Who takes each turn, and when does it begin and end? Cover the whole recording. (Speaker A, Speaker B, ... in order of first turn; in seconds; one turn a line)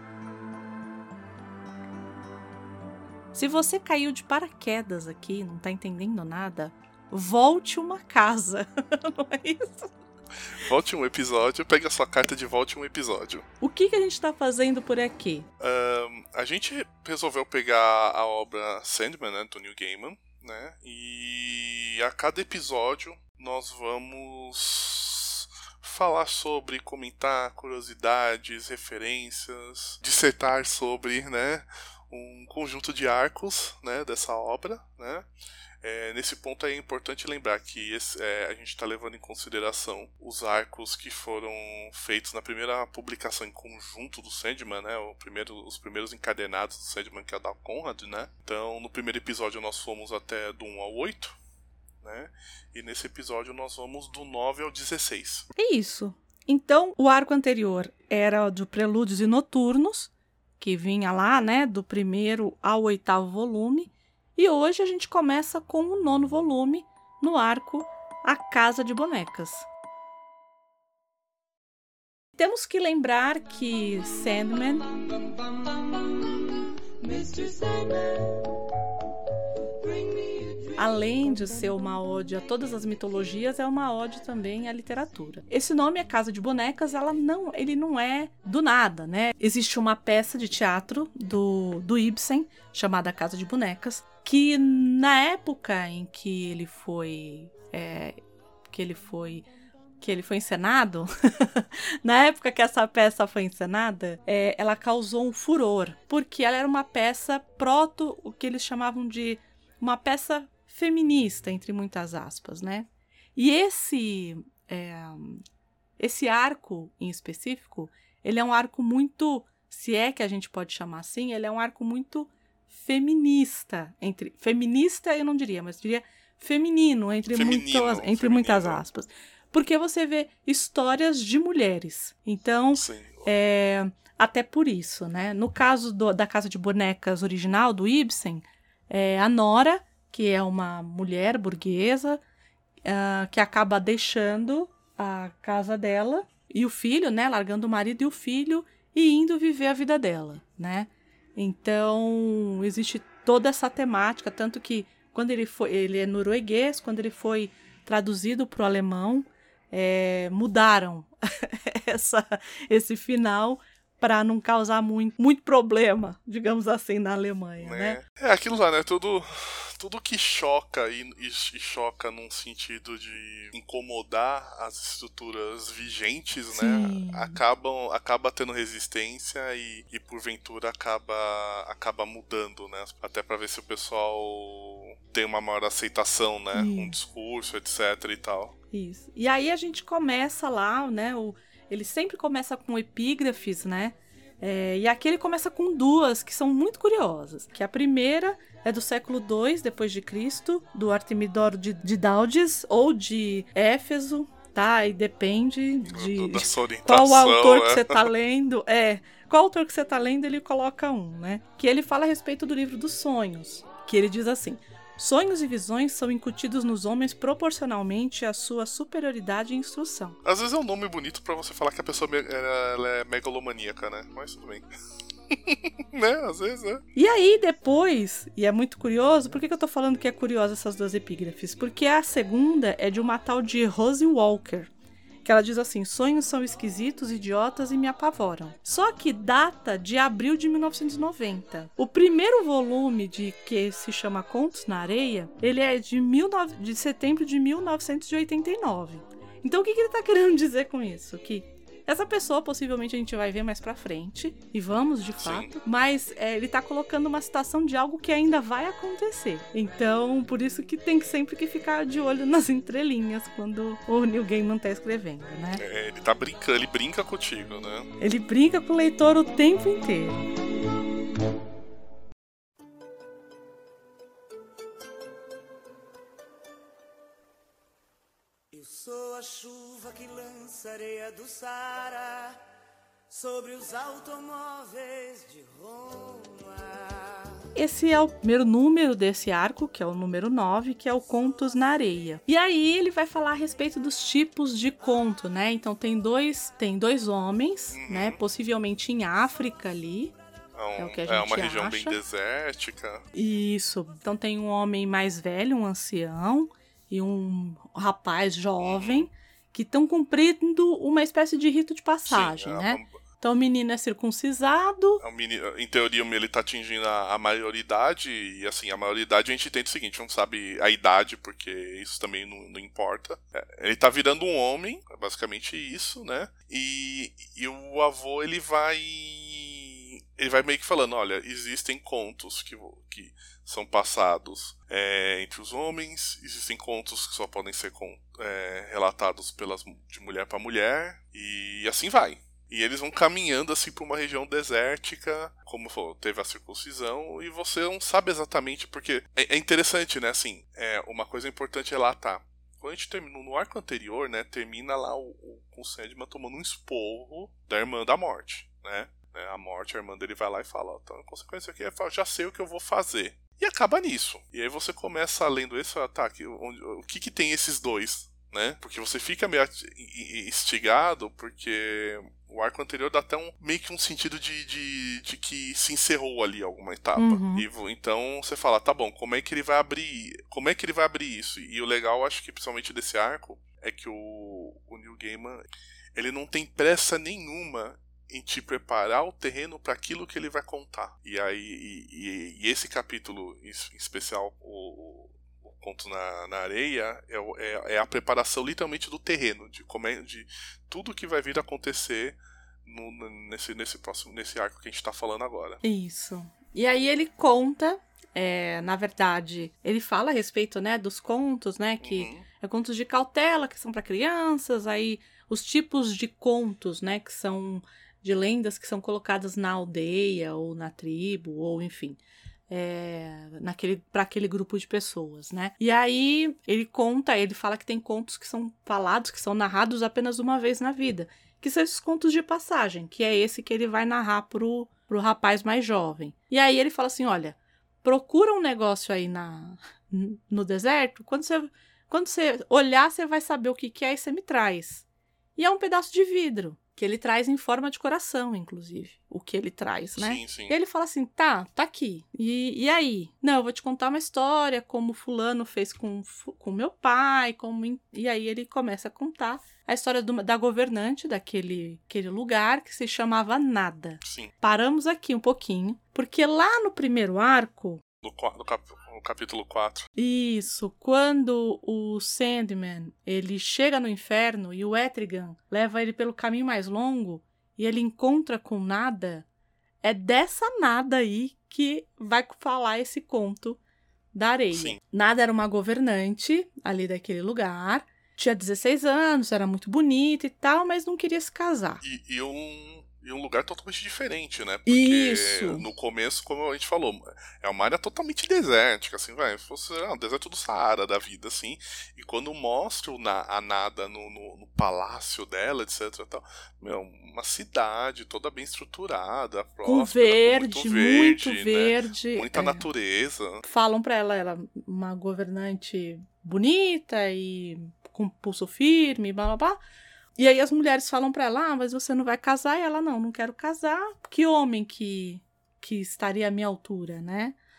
Speaker A: 3.3-9.9
Speaker B: 10.4-13.4
Speaker A: 13.6-15.5
Speaker B: 15.6-35.3
Speaker B: 35.8-51.4
Speaker B: 52.0-55.5
Speaker A: 55.5-69.7
Speaker A: 72.4-75.2
Speaker C: 77.0-78.3
Speaker A: 80.8-99.5
Speaker A: 100.0-115.4
Speaker A: 116.0-142.2
Speaker B: 127.3-128.8
Speaker B: 132.7-133.3
Speaker A: 142.8-168.0
Speaker B: 167.6-188.5
Speaker A: 176.5-177.4
Speaker A: 186.5-187.0
Speaker A: 188.7-220.2
Speaker B: 205.9-208.1
Speaker B: 220.2-224.7
Speaker B: 225.3-226.8
Speaker A: 226.9-234.7
Speaker A: 235.2-265.6
Speaker B: 255.2-255.5
Speaker B: 265.6-267.9
Speaker A: 268.0-270.2
Speaker C: 278.5-282.4
Speaker C: 283.1-287.3
Speaker A: 287.5-300.1
Speaker B: 297.7-298.2
Speaker B: 300.5-303.1
Speaker A: 300.8-302.0
Speaker A: 303.1-315.0
Speaker B: 308.6-309.1
Speaker B: 312.1-312.9
Speaker B: 315.0-405.6
Speaker A: 376.9-377.4
Speaker A: 405.6-422.0
Speaker B: 411.8-412.2
Speaker A: 422.5-444.8
Speaker A: 445.4-467.8
Speaker B: 449.9-450.5
Speaker B: 464.0-464.3
Speaker B: 468.0-469.9
Speaker A: 469.9-479.2
Speaker A: 479.8-483.6
Speaker A: 484.1-491.8
Speaker B: 484.5-484.8
Speaker B: 491.8-513.4
Speaker A: 494.6-495.6
Speaker A: 509.6-512.6
Speaker A: 513.4-519.6
Speaker A: 520.1-527.4